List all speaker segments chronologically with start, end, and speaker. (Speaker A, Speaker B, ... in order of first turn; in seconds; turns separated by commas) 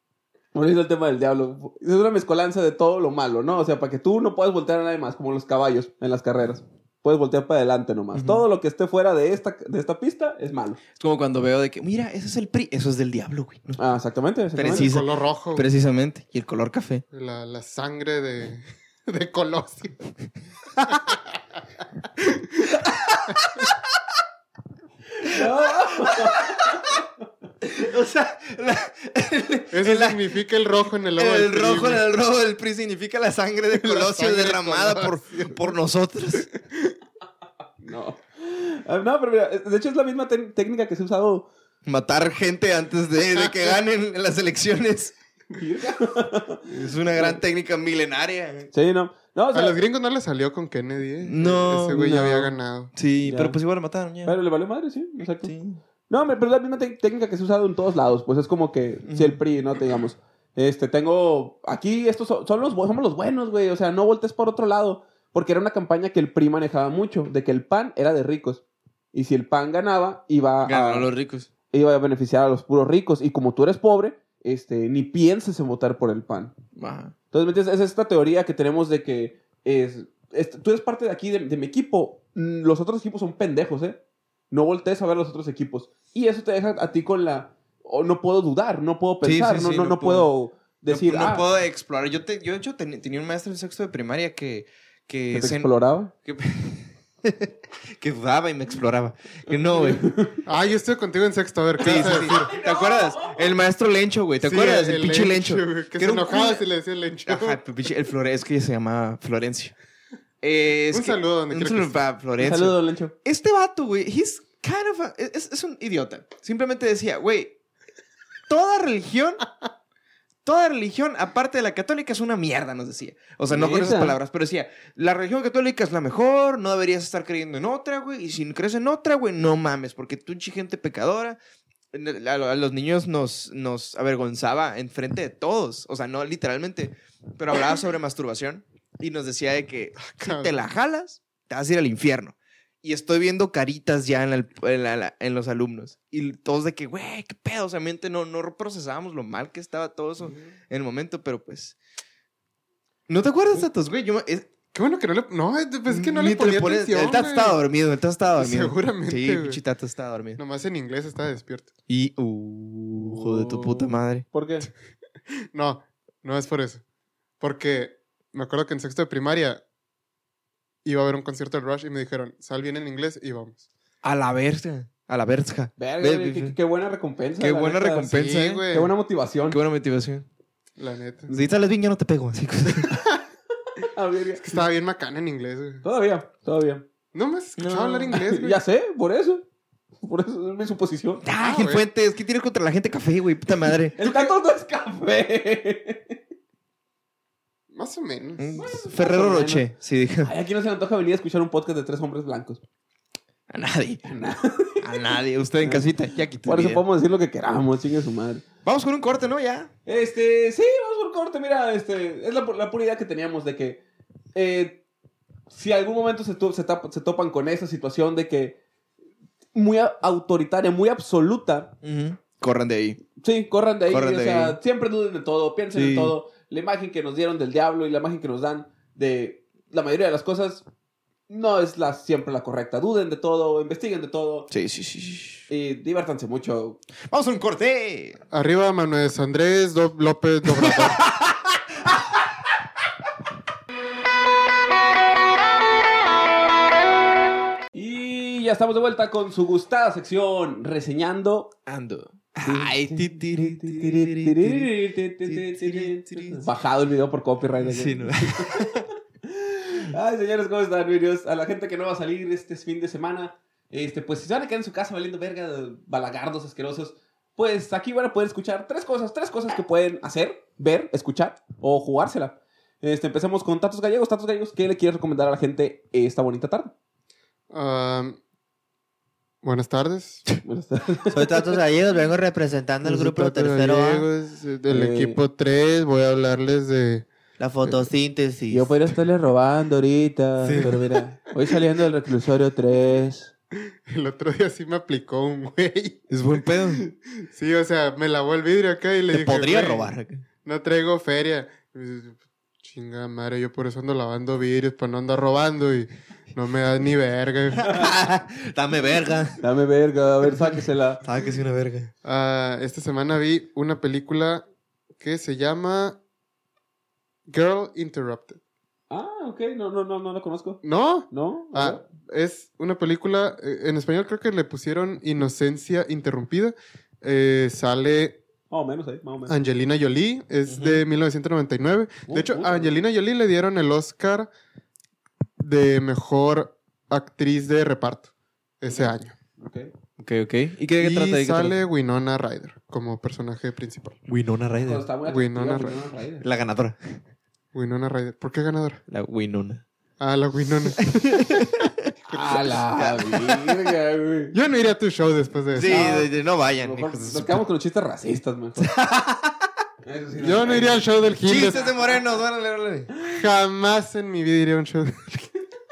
Speaker A: 0.5-10.8, Speaker B: 8.1-8.4, Speaker B: 11.0-13.8, Speaker A: 13.8-14.9, Speaker B: 14.6-17.0, Speaker C: 14.7-15.7, Speaker C: 17.1-20.0, Speaker C: 20.9-21.1, Speaker C: 22.2-22.7, Speaker B: 22.9-23.7, Speaker A: 25.2-26.9, Speaker B: 27.6-30.3, Speaker C: 29.7-32.0, Speaker B: 31.2-36.5, Speaker C: 33.7-35.7, Speaker A: 37.8-41.5, Speaker B: 41.9-45.1, Speaker A: 45.5-47.4, Speaker B: 46.7-48.7, Speaker A: 48.7-49.8, Speaker C: 49.5-52.9, Speaker B: 51.2-54.4, Speaker A: 52.0-52.4, Speaker A: 53.2-53.6, Speaker A: 54.2-55.5, Speaker B: 55.4-55.8, Speaker A: 56.1-71.1, Speaker B: 59.1-59.4, Speaker B: 70.7-71.5, Speaker A: 71.7-76.5, Speaker B: 76.8-77.2, Speaker A: 77.3-84.0, Speaker A: 84.5-91.5, Speaker B: 89.2-90.3, Speaker B: 90.9-100.1, Speaker A: 95.3-96.1, Speaker A: 99.5-100.4, Speaker C: 100.5-102.5, Speaker B: 101.8-106.7, Speaker A: 101.9-103.4, Speaker C: 104.4-107.6, Speaker B: 107.3-109.8, Speaker B: 110.4-117.6, Speaker C: 110.9-112.0, Speaker A: 112.4-113.1, Speaker B: 118.5-119.5, Speaker B: 120.5-131.4, Speaker A: 123.5-124.2, Speaker B: 131.9-151.8, Speaker C: 140.1-140.6, Speaker B: 153.1-154.5, Speaker C: 154.7-157.6, Speaker B: 155.9-160.4, Speaker C: 158.4-159.6, Speaker C: 160.4-161.7, Speaker B: 161.9-164.3, Speaker A: 163.0-164.7, Speaker C: 165.5-166.8, Speaker C: 167.4-169.6, Speaker C: 170.8-173.7, Speaker B: 174.0-176.6, Speaker A: 175.8-178.1, Speaker B: 177.4-178.7, Speaker C: 178.1-178.9, Speaker A: 178.7-179.6, Speaker B: 179.5-180.3, Speaker C: 180.8-181.3, Speaker B: 181.3-183.0, Speaker A: 183.8-184.6, Speaker C: 184.4-185.8, Speaker A: 185.8-186.8, Speaker C: 187.1-188.6, Speaker B: 187.6-188.1, Speaker A: 188.1-189.4, Speaker A: 190.0-191.2, Speaker B: 191.2-194.0, Speaker C: 191.4-191.9, Speaker A: 193.9-196.2, Speaker C: 197.7-198.6, Speaker B: 198.4-200.3, Speaker A: 198.6-199.7, Speaker A: 200.2-202.6, Speaker B: 203.5-204.0, Speaker A: 204.0-205.9, Speaker B: 204.8-206.8, Speaker A: 206.4-208.4, Speaker B: 208.7-209.7, Speaker A: 209.9-213.8, Speaker A: 214.3-214.8, Speaker A: 215.5-218.6, Speaker A: 219.5-221.7, Speaker B: 221.8-223.0, Speaker A: 223.2-230.7, Speaker B: 223.9-224.6, Speaker B: 225.7-226.1, Speaker A: 231.3-234.5, Speaker B: 234.5-235.5, Speaker A: 235.5-236.8, Speaker B: 237.1-238.2, Speaker C: 238.3-241.0, Speaker B: 240.7-240.9, Speaker A: 247.7-251.5, Speaker B: 251.7-254.7, Speaker A: 252.4-276.7, Speaker B: 255.2-256.5, Speaker B: 257.6-258.9, Speaker C: 277.5-278.2, Speaker C: 279.4-280.3, Speaker A: 280.4-281.5, Speaker D: 281.1-284.1, Speaker C: 282.8-287.1, Speaker A: 284.7-285.2, Speaker D: 287.4-288.7, Speaker A: 288.5-293.3, Speaker C: 290.4-290.8, Speaker B: 290.5-290.9, Speaker C: 293.9-296.0, Speaker B: 296.1-296.8, Speaker C: 296.7-307.9, Speaker B: 299.1-300.2, Speaker B: 307.6-309.4, Speaker A: 309.4-311.0, Speaker B: 311.0-311.9, Speaker C: 312.0-314.4, Speaker C: 315.0-316.0, Speaker C: 317.3-318.4, Speaker A: 318.9-321.8, Speaker C: 320.6-328.2, Speaker A: 328.5-329.4, Speaker C: 329.3-334.3, Speaker B: 330.5-330.8, Speaker A: 332.1-332.7, Speaker C: 335.4-338.1, Speaker C: 338.6-339.1, Speaker A: 338.7-339.7, Speaker B: 340.0-341.6, Speaker C: 340.8-344.0, Speaker B: 344.1-344.9, Speaker A: 344.6-346.2, Speaker C: 345.1-345.8, Speaker B: 346.2-347.0, Speaker C: 347.5-348.8, Speaker B: 348.9-349.6, Speaker C: 350.0-352.4, Speaker B: 350.8-351.7, Speaker A: 352.1-354.4, Speaker B: 352.7-353.6, Speaker C: 354.3-355.9, Speaker B: 355.5-357.4, Speaker A: 355.7-358.8, Speaker B: 358.6-359.5, Speaker A: 359.9-360.9, Speaker C: 360.2-361.7, Speaker B: 361.2-362.9, Speaker C: 363.0-365.3